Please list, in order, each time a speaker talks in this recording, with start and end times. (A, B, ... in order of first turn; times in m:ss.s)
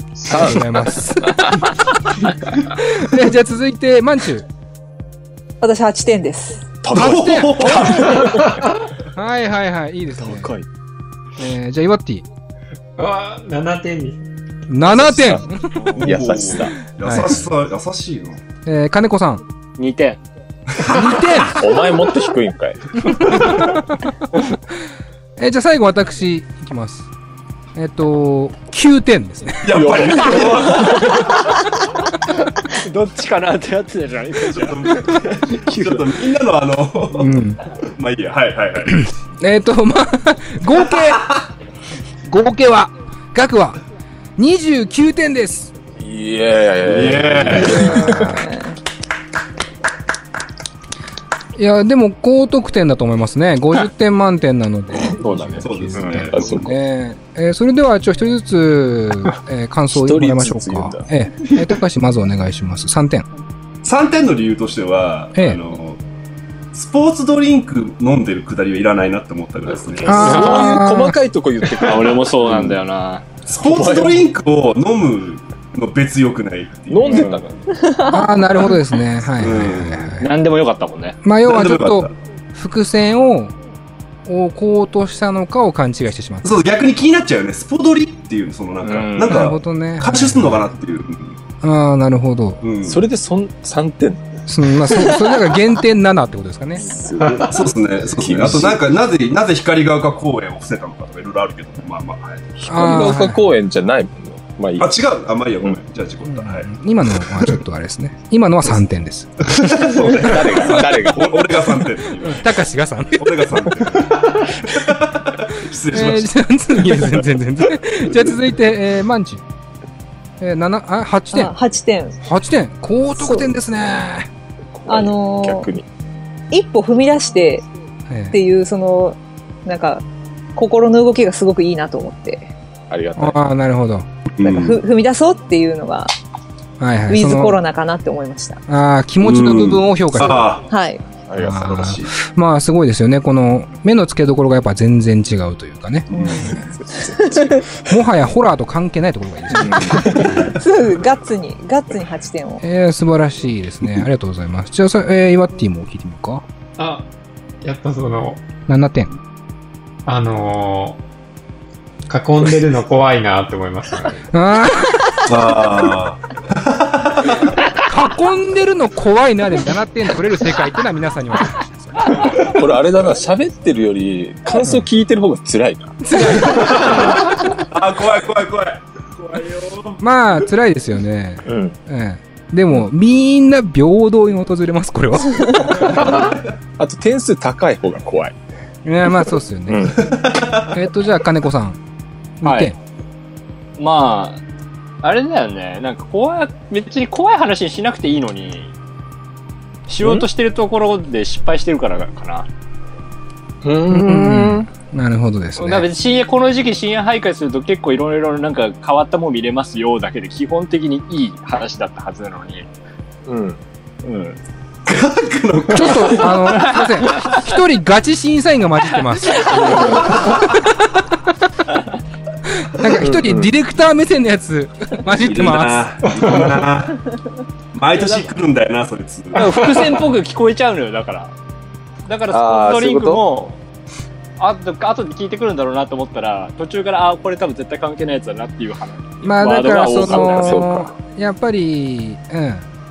0:00.2-0:01.7 A
0:00.3-0:01.8 B
0:02.4-0:04.4 B
0:05.6-0:06.7 C
0:06.8-0:08.6 A
0:06.9-0:08.4 D
0:06.9-0:07.8 B
0:09.1-0:10.5 B
0:10.2-0:10.6 A
0:11.4-0:12.2 B
0:13.0-0:14.2 E
0:14.7-0:15.8 B
0:14.8-0:15.4 A
0:15.9-0:18.4 D
0:16.0-0:16.8 A
0:17.0-0:17.4 B
0:18.6-0:19.4 B
0:19.8-0:20.2 F
0:20.7-0:21.5 D
0:20.8-0:21.6 B
0:21.5-0:23.3 A
0:23.1-0:23.8 B
0:25.4-0:27.1 B
0:27.7-0:29.7 B
0:29.6-0:31.3 D
0:29.7-0:31.3 A
0:32.7-0:35.1 F
0:34.5-0:39.0 D
0:35.7-0:36.0 F
0:37.1-0:37.6 B
0:39.0-0:41.3 B
0:42.2-0:43.8 B
0:44.4-0:45.7 B
0:46.0-0:48.3 A
0:46.8-0:48.3 D
0:47.6-0:48.4 B
0:48.2-0:48.6 C
0:51.6-1:03.2 B
0:55.0-0:56.7 A
0:55.6-0:56.5 D
0:56.0-0:56.3 F
0:59.9-1:01.1 A
1:03.8-1:06.0 D
1:06.7-1:10.4 D
1:09.7-1:12.7 A
1:10.1-1:11.2 B
1:10.2-1:10.7 F
1:11.8-1:13.2 F
1:13.4-1:17.3 D
1:13.6-1:14.2 A
1:16.9-1:18.0 A
1:17.1-1:17.4 F
1:17.7-1:18.3 C
1:18.1-1:20.3 B
1:19.4-1:20.2 D
1:20.2-1:21.2 F
1:21.2-1:23.5 B
1:21.4-1:22.1 D
1:24.3-1:26.5 B
1:26.4-1:31.4 D
1:28.8-1:29.4 F
1:29.2-1:30.6 B
1:31.6-1:32.6 B
1:32.6-1:33.0 D
1:32.8-1:35.2 A
1:34.5-1:36.9 B
1:36.8-1:38.8 A
1:37.4-1:43.1 D
1:42.6-1:43.4 B
1:42.7-1:44.9 A
1:44.8-1:46.7 D
1:46.2-1:50.8 B
1:49.5-1:52.6 D
1:50.1-1:51.6 A
1:52.2-1:53.3 B
1:53.2-1:57.2 D
1:55.9-1:59.4 B
2:00.4-2:01.5 B
2:01.3-2:02.2 C
2:02.2-2:04.3 B
2:04.7-2:05.8 A
2:04.9-2:05.7 C
2:06.5-2:07.6 C
2:08.1-2:08.4 B
2:08.3-2:10.0 C
2:10.6-2:12.5 C
2:12.9-2:13.4 A
2:13.2-2:14.0 B
2:14.3-2:14.8 D
2:14.4-2:16.1 C
2:16.8-2:17.6 B
2:17.1-2:18.6 C
2:18.7-2:20.5 B
2:19.2-2:20.6 D
2:20.7-2:21.0 C
2:21.2-2:22.1 A
2:21.4-2:26.6 B
2:26.1-2:27.6 C
2:26.1-2:26.4 D
2:26.5-2:27.7 A
2:27.9-2:30.5 B
2:29.6-2:30.5 A
2:30.4-2:32.6 C
2:32.6-2:36.4 B
2:36.8-2:37.1 E
2:37.6-2:38.4 E
2:38.7-2:39.1 B
2:40.0-2:41.0 E
2:42.1-2:44.2 E
2:44.3-2:45.2 B
2:45.3-2:47.6 D
2:47.8-2:52.4 B
2:52.2-2:56.0 A
2:56.0-2:57.2 B
2:56.5-3:00.0 D
3:00.0-3:06.0 B
3:01.4-3:01.8 A
3:05.8-3:08.4 A
3:05.8-3:06.4 D
3:08.8-3:10.0 B
3:09.7-3:10.0 A
3:10.0-3:10.7 D
3:10.7-3:11.8 B
3:12.4-3:12.7 B
3:12.4-3:12.7 F
3:13.8-3:14.4 F
3:15.0-3:18.7 F
3:19.9-3:22.5 F
3:20.0-3:20.2 A
3:23.6-3:24.7 A
3:23.9-3:25.9 B
3:25.6-3:32.7 F
3:33.2-3:33.6 A
3:34.0-3:34.4 F
3:34.8-3:36.6 D
3:35.7-3:40.4 B
3:36.5-3:37.3 F
3:39.4-3:40.1 F
3:39.9-3:40.4 D
3:42.6-3:45.9 B
3:43.0-3:43.5 A
3:45.2-3:47.0 D
3:46.2-3:46.5 E
3:47.7-3:49.8 D
3:49.3-3:51.3 F
3:52.0-3:53.6 F
3:52.3-3:53.5 A
3:54.4-4:00.7 F
3:59.2-4:02.6 B
4:00.0-4:00.9 A